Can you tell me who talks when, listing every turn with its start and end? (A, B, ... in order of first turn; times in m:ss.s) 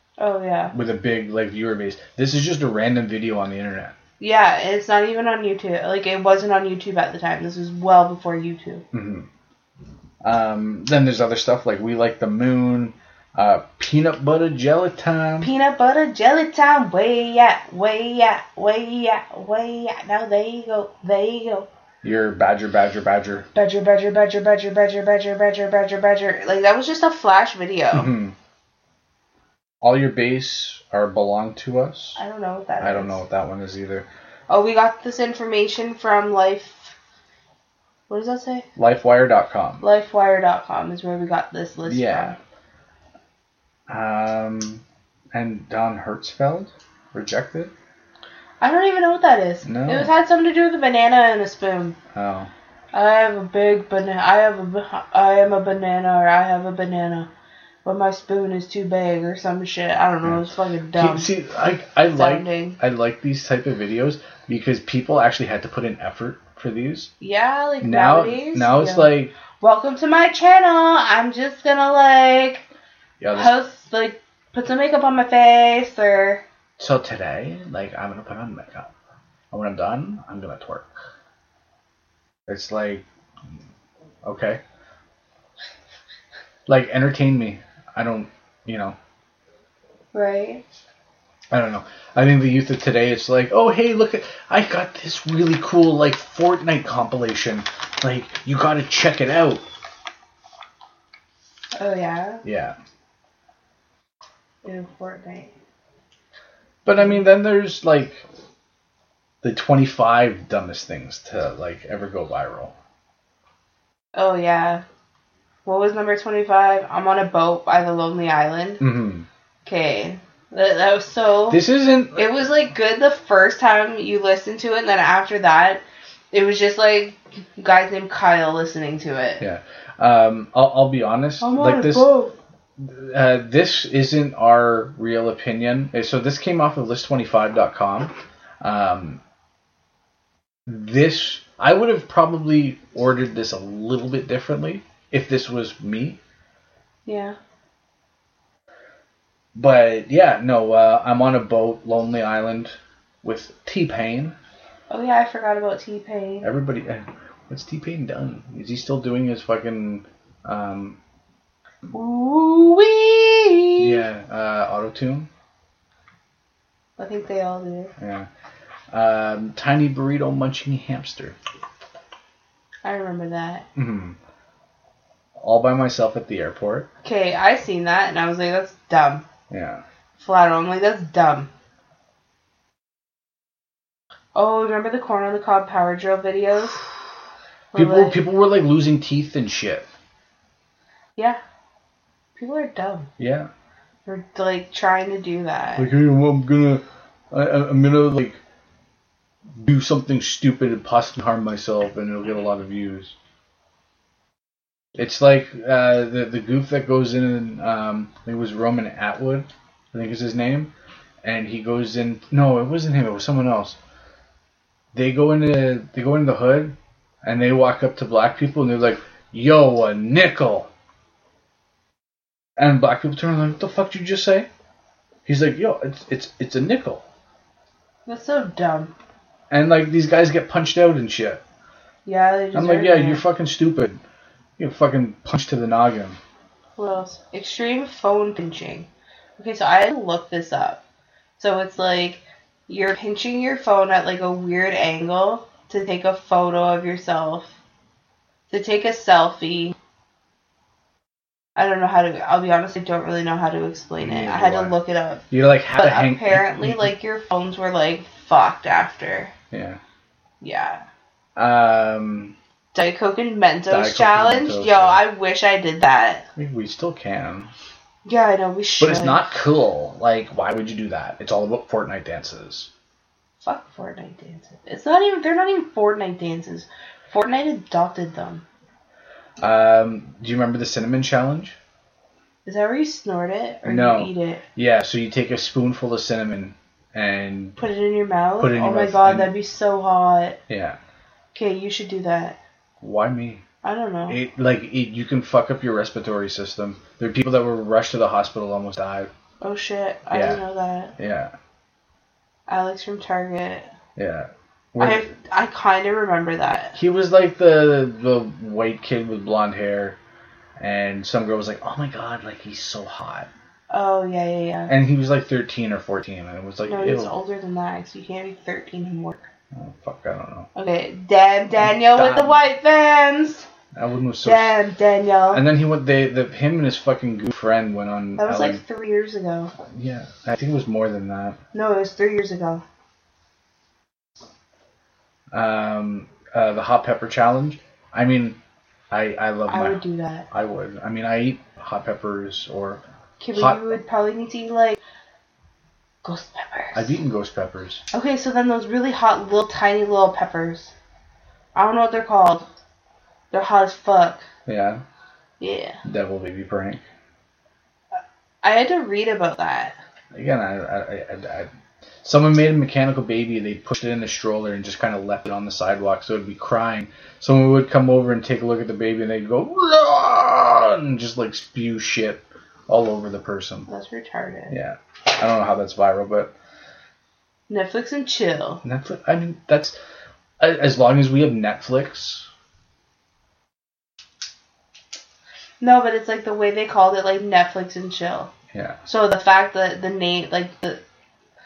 0:00.2-0:00.7 A
0:00.7-0:03.9 B
0:04.2-0:08.8 A
0:08.9-0:09.3 B
0:10.2-0:15.5 B
0:15.4-0:21.7 A
0:22.0-0:23.5 B
0:23.5-0:28.1 A
0:27.9-0:28.3 B
0:29.8-0:32.2 B
0:32.2-0:33.2 A
0:32.8-0:34.1 B
0:34.5-0:36.9 A
0:38.1-0:38.7 A
0:38.8-0:39.8 B
0:39.8-0:42.4 A
0:41.8-0:42.4 B
0:43.9-0:47.7 B
0:48.6-0:52.0 A
0:49.6-0:50.1 B
0:52.1-0:52.5 B
0:52.9-0:57.3 A
0:57.8-1:01.3 A
1:01.0-1:07.1 B
1:02.1-1:02.8 A
1:07.2-1:12.6 A
1:07.8-1:09.3 B
1:13.2-1:13.5 B
1:13.3-1:16.4 A
1:16.8-1:18.9 B
1:19.5-1:20.9 B
1:22.5-1:23.0 B
1:24.2-1:24.6 B
1:26.6-1:29.0 B
1:30.1-1:30.6 A
1:31.5-1:39.6 B
1:41.7-1:42.4 A
1:42.4-1:42.8 B
1:44.6-1:45.5 A
1:46.8-1:48.2 B
1:49.4-1:52.7 B
1:54.1-1:54.8 A
1:55.6-1:58.8 A
1:58.8-1:59.3 B
1:59.6-2:01.6 A
2:01.5-2:02.3 B
2:02.1-2:09.4 A
2:09.4-2:12.1 B
2:11.4-2:12.3 A
2:12.8-2:19.2 B
2:20.6-2:26.2 B
2:27.0-2:27.4 A
2:29.5-2:34.4 B
2:34.9-2:36.5 A
2:36.4-2:41.0 B
2:41.9-2:44.0 A
2:43.8-2:45.3 B
2:47.0-2:47.9 A
2:48.0-2:48.3 B
2:48.9-2:51.4 B
2:52.8-2:53.6 A
2:53.7-2:54.2 B
2:55.4-2:56.9 B
2:57.0-2:59.2 A
2:59.5-2:59.8 B
3:00.2-3:01.5 A
3:04.3-3:06.8 A
3:07.7-3:08.2 A
3:07.7-3:09.8 B
3:12.4-3:13.1 A
3:13.2-3:13.5 B
3:14.0-3:15.9 A
3:15.8-3:18.4 B
3:19.6-3:23.1 B
3:25.0-3:30.7 B
3:31.2-3:33.8 B
3:34.9-3:40.7 B
3:42.6-3:44.5 B
3:45.2-3:47.0 B
3:48.0-3:48.9 A
3:49.5-3:51.4 B
3:52.0-3:53.2 A
3:52.5-3:54.0 B
3:54.6-3:56.2 B
3:56.8-4:00.8 A
4:01.4-4:07.6 A
4:08.5-4:09.8 A
4:11.6-4:19.3 A
4:14.0-4:14.8 B
4:15.3-4:16.9 B
4:19.5-4:19.8 B
4:20.4-4:20.8 A
4:21.4-4:22.3 B
4:22.7-4:26.3 A
4:23.7-4:25.0 B
4:26.4-4:27.5 B
4:28.0-4:29.3 A
4:28.8-4:32.7 B
4:33.4-4:38.4 A
4:39.4-4:41.6 B
4:42.4-4:44.4 A
4:43.6-4:47.6 B
4:47.6-4:50.4 A
4:48.4-4:49.4 B
4:50.5-4:50.8 B
4:51.3-4:52.4 A
4:52.8-4:53.4 B
4:53.6-4:54.2 A
4:54.1-4:59.1 B
4:59.4-5:00.9 A
5:00.1-5:00.4 B
5:01.0-5:01.3 B
5:02.5-5:03.7 A
5:04.0-5:05.1 B
5:04.8-5:06.8 A
5:06.7-5:10.0 B
5:10.6-5:13.3 B
5:13.7-5:14.7 A
5:14.7-5:17.1 B
5:16.6-5:19.2 A
5:19.5-5:20.5 B
5:20.5-5:23.5 A
5:21.6-5:22.4 B
5:23.7-5:24.6 B
5:24.2-5:25.4 A
5:25.3-5:28.6 B
5:28.2-5:29.5 A
5:29.7-5:31.4 B
5:31.5-5:32.6 A
5:35.3-5:38.4 B
5:38.9-5:43.7 B
5:39.5-5:40.3 A
5:43.2-5:44.8 A
5:46.0-5:47.0 A
5:46.7-5:47.8 B
5:47.9-5:50.7 A
5:51.5-5:52.5 A
5:53.3-5:54.3 A
5:54.4-5:54.8 B
5:55.4-5:55.8 A
5:55.8-5:56.8 B
5:58.4-5:59.8 A
6:00.1-6:01.5 B
6:02.0-6:13.7 B
6:13.7-6:14.6 A
6:14.5-6:16.3 B
6:17.5-6:18.6 A
6:18.6-6:19.8 B
6:20.4-6:22.3 B
6:25.6-6:28.3 A
6:28.5-6:28.8 B
6:28.8-6:30.8 A